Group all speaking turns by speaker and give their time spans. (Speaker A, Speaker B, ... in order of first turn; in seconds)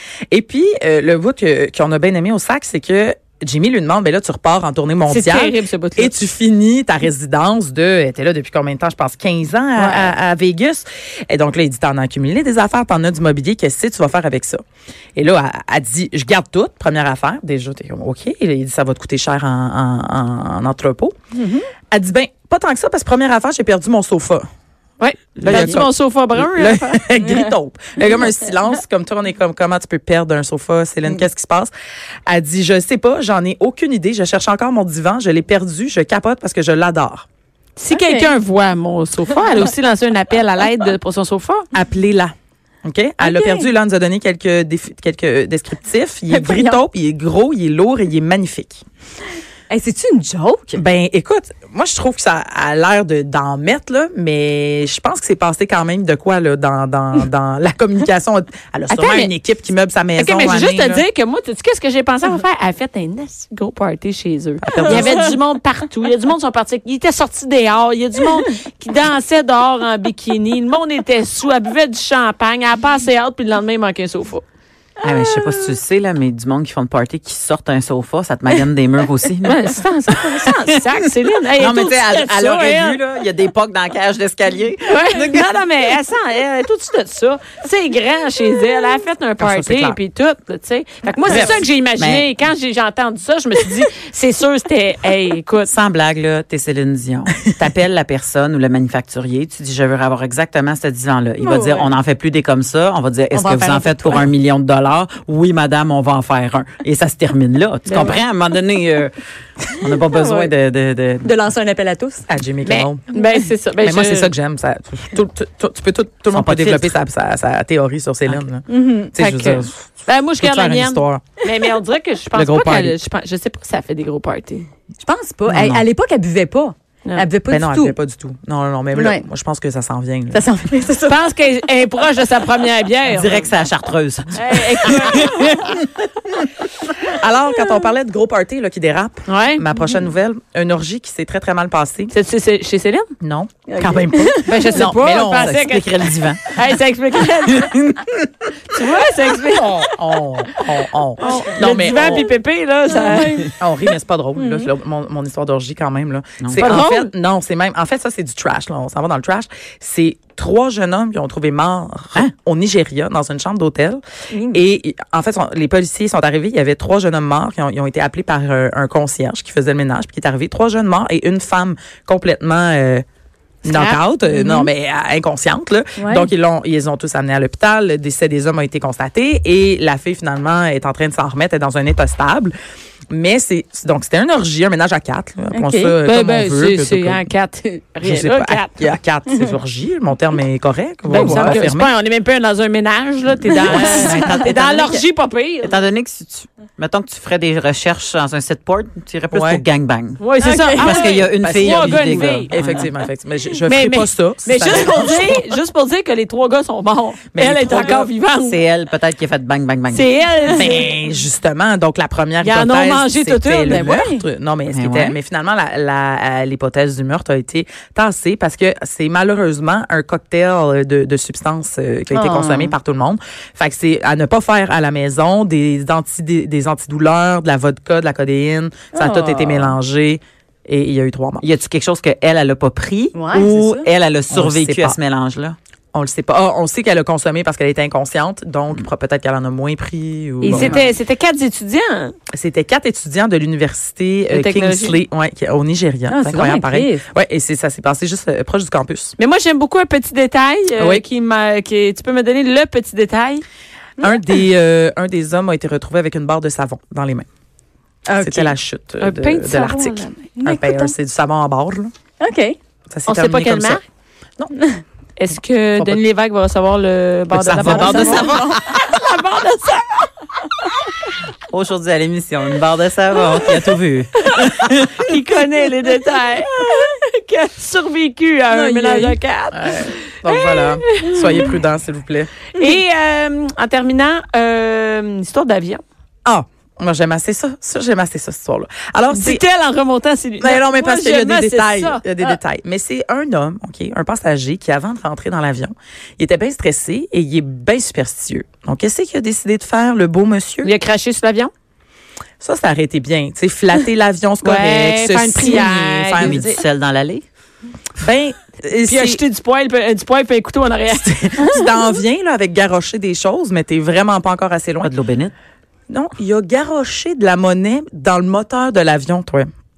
Speaker A: 0.3-14.6, 15.2-21.1, 21.9-24.4, 25.4-31.7, 32.3-37.2, 41.7-42.3, 42.8-48.8, 50.7-61.0, 64.6-65.3, 89.4-90.0, 91.3-91.6, 112.3-113.0, 113.8-121.2, 122.3-123.0, 125.5-125.8, 127.5-130.4, 137.1-142.1, 143.2-146.4, 149.5-152.2, 153.6-173.0, 173.6-182.5, 183.1-187.2, 188.0-191.9, 199.3-199.6, 201.4-205.4, 207.3-208.1, 210.5-231.4, 234.3-235.0, 235.9-240.9, 242.3-249.1, 250.8-251.0, 254.0-257.2, 258.1-261.9, 262.9-263.8, 267.3-268.9, 279.5-282.3, 286.2-289.4, 290.4-300.7, 302.4-306.6, 308.0-309.2, 310.9-314.9, 315.9-319.5
Speaker B: 5.1-6.1, 25.0-27.1, 37.8-41.6, 58.9-59.3, 60.2-74.4, 79.5-83.0, 84.9-95.7, 107.9-108.2, 112.6-114.3, 119.2-124.7, 131.1-133.5, 134.3-135.6, 139.3-139.6, 142.1-143.1, 144.5-145.9, 146.5-147.9, 148.7-149.8, 151.2-153.5, 156.6-157.1, 173.7-174.0, 186.1-188.8, 191.1-195.8, 200.2-202.5, 203.7-208.6, 209.9-210.8, 212.4-213.9, 240.4-242.1, 244.3-245.0, 249.2-253.4, 259.0-260.3, 263.1-263.8, 265.2-270.1, 274.2-274.5, 275.0-281.5, 282.6-285.8, 289.1-292.0, 300.6-301.5, 304.4-306.5, 308.9-311.1
Speaker C: 21.4-21.7, 37.9-38.3, 43.2-43.7, 46.3-46.8, 49.7-50.8, 75.0-75.5, 101.4-101.9, 103.3-104.3, 110.1-110.5, 111.2-112.2, 118.7-119.1, 125.0-128.0, 128.9-129.2, 130.3-131.2, 143.7-144.8, 151.2-152.2, 152.9-153.6, 154.4-154.7, 174.3-174.7, 176.0-176.3, 185.5-186.0, 191.2-191.6, 193.7-194.2, 200.4-201.2, 213.7-214.2, 222.1-222.8, 228.9-229.8, 233.1-233.9, 246.1-247.0, 258.1-258.6, 260.4-260.9, 262.2-262.6, 264.5-264.8, 267.6-268.6, 278.5-279.2
Speaker D: 25.4-25.8, 75.0-81.0, 81.5-85.5, 91.3-92.3, 95.7-109.1, 109.8-111.3, 116.3-116.9, 133.1-135.9, 145.4-146.5, 156.4-156.8, 193.6-195.0, 195.6-202.9, 208.4-210.1, 214.7-215.2, 231.4-235.6, 240.5-240.8, 267.6-268.5, 271.5-275.1, 306.2-307.2, 314.8-315.3